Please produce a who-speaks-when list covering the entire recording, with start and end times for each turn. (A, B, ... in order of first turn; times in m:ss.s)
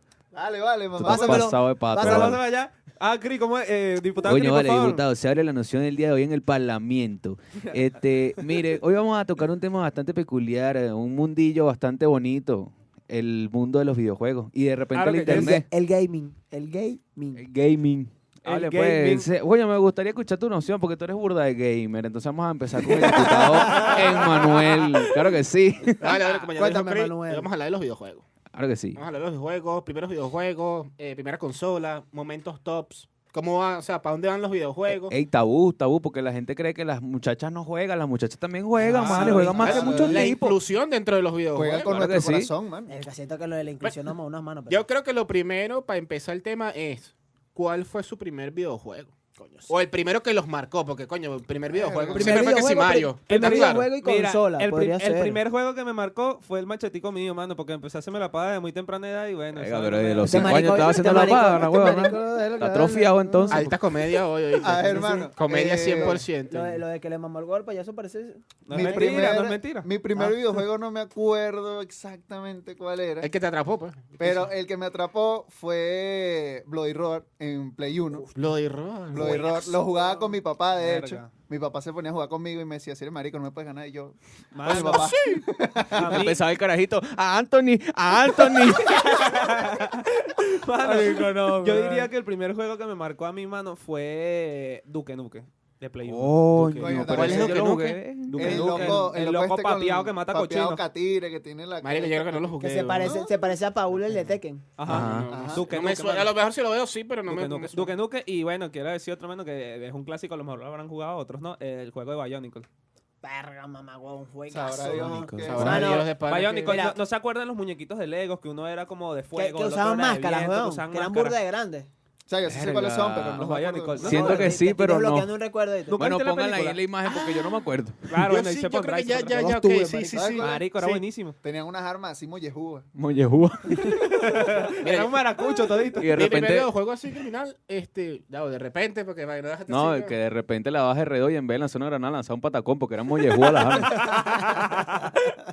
0:00.3-0:01.6 A
0:01.0-0:02.4 B
0:01.0-0:02.4 C
0:02.0-0:05.0 D
0:04.2-0:15.7 B
0:14.9-0:15.6 D
0:15.3-0:17.5 C
0:17.4-0:26.2 B
0:18.4-0:19.3 D
0:23.0-0:24.3 C
0:23.2-0:24.4 D
0:26.0-0:28.3 E
0:26.4-0:27.5 C
0:28.5-0:29.0 B
0:29.0-0:35.2 E
0:34.9-0:40.3 B
0:38.8-0:40.4 C
0:38.9-0:39.6 D
0:39.5-0:40.3 A
0:39.6-0:42.1 E
0:41.5-0:42.9 A
0:41.9-0:42.5 B
0:42.9-0:44.8 C
0:44.7-0:49.2 E
0:49.4-0:49.7 C
0:49.7-0:53.9 E
0:51.7-0:52.6 A
0:52.1-0:55.4 C
0:53.3-1:00.9 D
0:59.5-1:03.7 B
1:00.3-1:03.7 C
1:03.5-1:06.8 E
1:04.6-1:06.2 A
1:04.8-1:05.3 C
1:06.1-1:09.3 C
1:08.7-1:09.9 D
1:08.7-1:13.3 A
1:10.2-1:10.4 C
1:13.2-1:14.5 E
1:14.2-1:18.3 A
1:18.3-1:19.7 E
1:19.1-1:26.3 A
1:19.2-1:19.6 D
1:20.8-1:21.3 D
1:24.5-1:25.2 D
1:24.7-1:25.4 E
1:26.0-1:26.4 D
1:26.0-1:29.2 B
1:28.5-1:36.4 D
1:30.8-1:32.1 C
1:36.0-1:39.1 B
1:36.5-1:38.8 E
1:36.8-1:37.8 A
1:38.3-1:40.8 D
1:38.3-1:43.3 A
1:41.8-1:43.1 E
1:42.6-1:44.7 C
1:44.8-1:46.3 D
1:44.9-1:45.3 B
1:44.9-1:47.9 E
1:45.3-1:45.7 A
1:47.3-1:52.7 D
1:53.2-1:56.1 C
1:54.5-1:56.1 A
1:55.0-1:56.0 B
1:55.4-1:56.8 E
1:56.2-2:01.4 D
1:56.7-1:57.0 C
1:59.4-2:01.9 C
2:02.3-2:04.2 A
2:02.5-2:03.5 B
2:03.4-2:04.6 D
2:04.0-2:05.3 B
2:04.0-2:06.1 C
2:05.9-2:06.8 D
2:06.0-2:08.1 B
2:07.0-2:10.6 E
2:08.1-2:11.4 D
2:10.1-2:12.9 A
2:13.0-2:14.0 B
2:13.9-2:16.1 D
2:14.8-2:15.2 E
2:16.0-2:16.7 B
2:16.1-2:20.2 E
2:19.7-2:24.3 B
2:23.6-2:25.3 D